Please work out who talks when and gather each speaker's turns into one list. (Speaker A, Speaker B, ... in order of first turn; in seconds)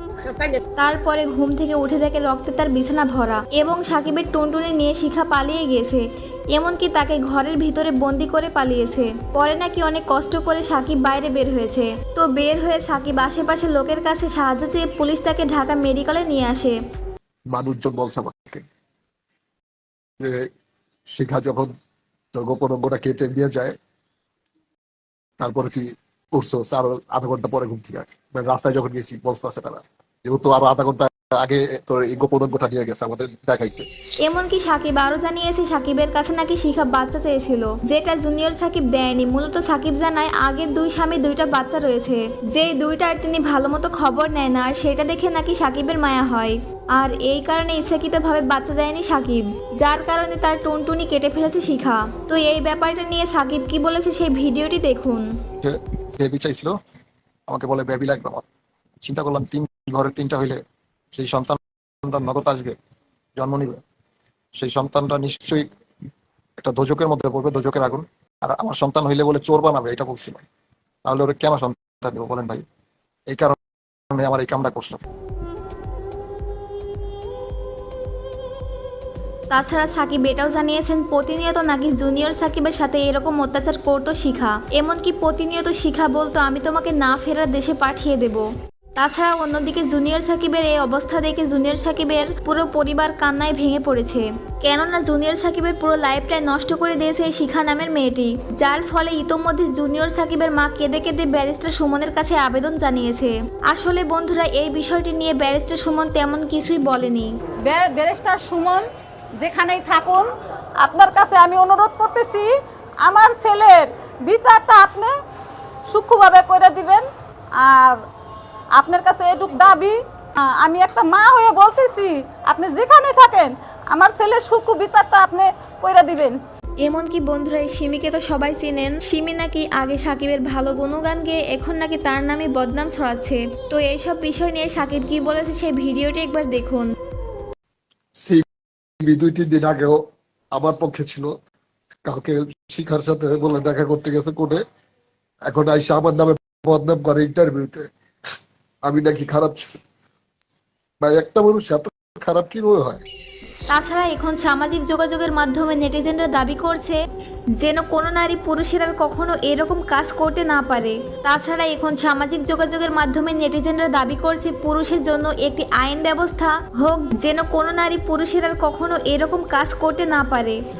Speaker A: 0.8-16.8, 34.2-55.2, 79.5-88.4, 89.0-107.3, 126.8-136.9, 153.7-157.0, 157.6-170.6
Speaker B: 17.5-18.6, 20.2-20.5, 21.1-21.7, 22.3-23.8, 25.4-33.9, 55.6-56.8, 57.5-58.4, 59.0-60.6, 61.1-62.8, 63.4-63.8, 64.5-65.7, 66.6-70.4, 71.0-72.6, 73.3-73.5, 74.1-75.0, 138.2-138.4, 139.0-140.0, 140.5-141.3, 142.1-144.6, 145.5-147.9, 148.8-149.8, 151.0-153.0
Speaker C: 107.6-115.2, 115.8-118.0, 118.7-126.4